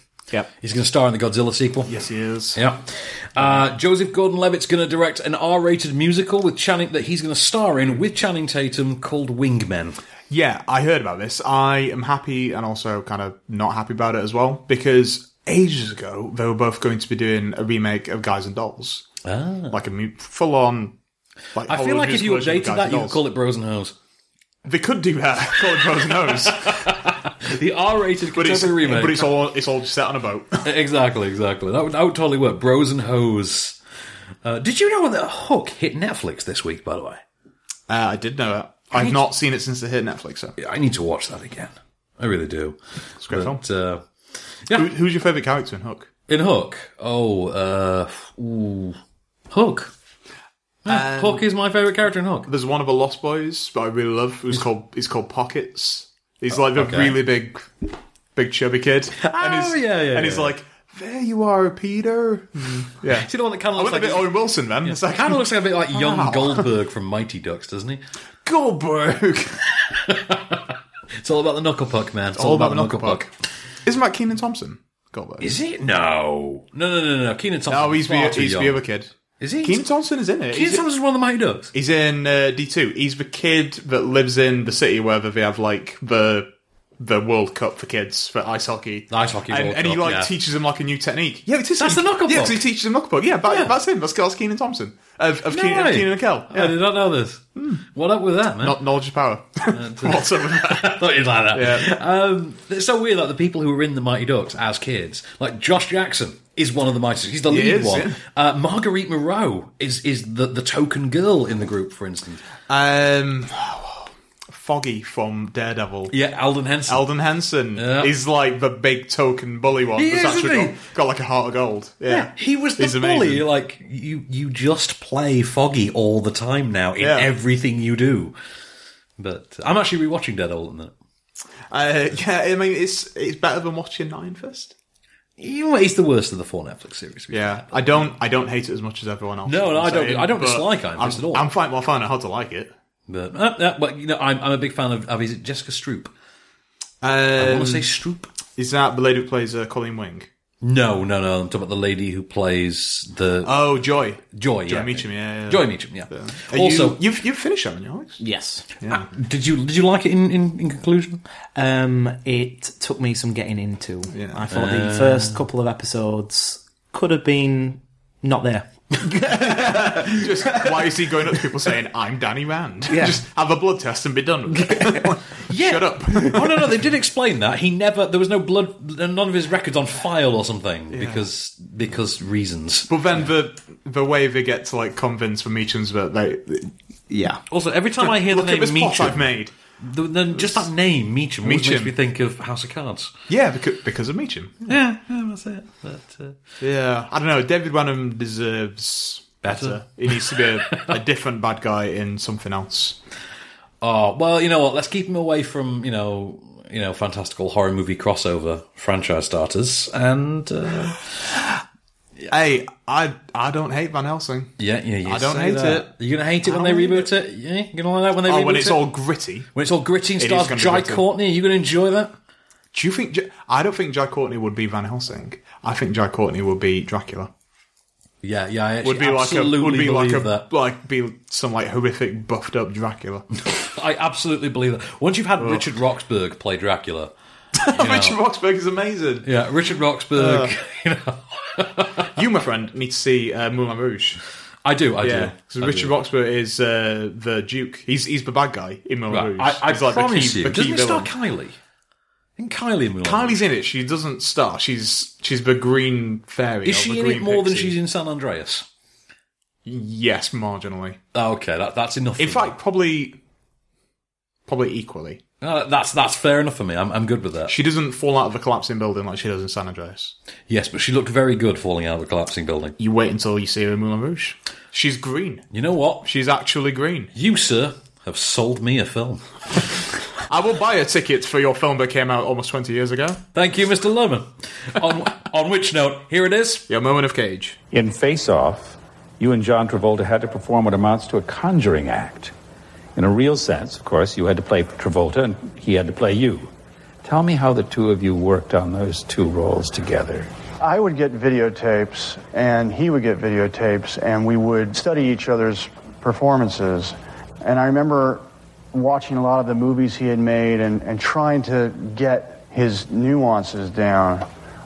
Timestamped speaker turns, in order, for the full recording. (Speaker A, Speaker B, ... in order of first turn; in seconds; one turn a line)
Speaker A: 0.6-1.9
Speaker B: 1.9-2.6
Speaker A: 2.5-10.0
Speaker B: 10.3-19.1
Speaker A: 19.2-19.8
Speaker B: 19.7-20.9
Speaker B: 21.5-23.2
Speaker A: 21.7-23.9
Speaker B: 24.6-26.9
Speaker A: 26.5-29.3
Speaker B: 28.3-30.6
Speaker A: 30.6-33.8
Speaker A: 34.4-37.2
Speaker B: 37.9-40.5
Speaker A: 38.9-39.2
Speaker A: 40.6-44.0
Speaker B: 43.2-43.6
Speaker B: 44.7-46.1
Speaker A: 46.3-49.0
Speaker A: 49.5-49.9
Speaker B: 50.9-51.4
Speaker A: 50.9-52.5
Speaker B: 52.5-66.7
Speaker A: 56.7-57.2
Speaker A: 59.2-60.5
Speaker A: 63.1-68.0
Speaker B: 68.4-69.6
Speaker A: 69.7-73.2
Speaker B: 72.3-73.3
Speaker B: 73.8-75.5
Speaker A: 75.4-78.8
Speaker B: 77.7-79.1
Speaker A: 79.4-79.8
Speaker B: 79.6-80.8
Speaker A: 80.5-81.7
Speaker B: 81.7-86.5
Speaker B: 87.0-96.8
Speaker A: 89.1-90.3
Speaker A: 91.8-92.6
Speaker A: 95.5-98.8
Speaker B: 97.5-97.8
Speaker B: 98.6-101.9
Speaker A: 99.7-112.4
Speaker B: 107.5-108.2
Speaker B: 112.7-116.1
Speaker A: 116.1-117.0
Speaker B: 116.9-123.5
Speaker A: 117.8-118.1
Speaker A: 120.0-120.7
Speaker A: 122.1-128.3
Speaker B: 127.0-127.3
Speaker A: 129.2-130.9
Speaker B: 131.7-134.7
Speaker A: 135.4-138.1
Speaker B: 137.3-142.7
Speaker A: 139.4-141.5
Speaker A: 143.1-146.1
Speaker B: 147.0-147.9
Speaker A: 147.4-148.3
Speaker B: 148.6-150.3
Speaker A: 150.6-153.5
Speaker B: 153.4-158.2
Speaker A: 154.3-157.0
Speaker C: 158.2-158.7
Speaker B: 158.8-159.1
Speaker A: 158.9-161.2
Speaker C: 161.5-170.1
Speaker B: 164.1-164.5
Speaker A: 164.5-165.4
Speaker B: 169.3-176.8
Speaker C: 172.9-173.2
Speaker A: 175.5-183.2
Speaker B: 180.9-181.2
Speaker B: 182.9-186.7
Speaker C: 187.1-187.4
Speaker A: 187.5-193.1
Speaker B: 188.0-189.5
Speaker B: 190.3-190.7
Speaker B: 191.4-191.9
Speaker B: 193.3-194.7
Speaker A: 194.7-196.4
Speaker B: 196.6-203.0
Speaker A: 199.4-200.9
Speaker A: 203.8-211.1
Speaker B: 212.3-215.9
Speaker A: 214.6-218.8
Speaker B: 216.4-217.1
Speaker B: 218.2-219.5
Speaker A: 219.5-222.1
Speaker B: 220.2-221.0
Speaker B: 222.7-227.3
Speaker A: 228.2-230.5
Speaker B: 228.8-233.3
Speaker A: 233.6-237.1
Speaker B: 237.6-239.2
Speaker A: 237.7-238.2
Speaker A: 239.2-242.1
Speaker B: 240.2-240.5
Speaker B: 242.2-244.2
Speaker A: 244.6-245.9
Speaker B: 245.0-251.1
Speaker A: 249.1-251.6
Speaker A: 252.4-253.4
Speaker B: 253.0-257.8
Speaker A: 256.6-258.6
Speaker B: 259.6-261.0
Speaker A: 261.1-262.5
Speaker B: 262.2-263.2
Speaker B: 264.4-265.2
Speaker A: 265.4-267.5
Speaker B: 267.5-270.1
Speaker A: 270.5-272.7
Speaker B: 272.8-275.4
Speaker A: 275.5-276.0
Speaker B: 276.0-277.1
Speaker A: 277.1-279.6
Speaker B: 280.3-283.2
Speaker A: 283.3-286.7
Speaker B: 286.7-287.6
Speaker D: 287.7-292.3
Speaker D: 292.9-296.5
Speaker D: 297.0-300.3
Speaker E: 300.6-314.3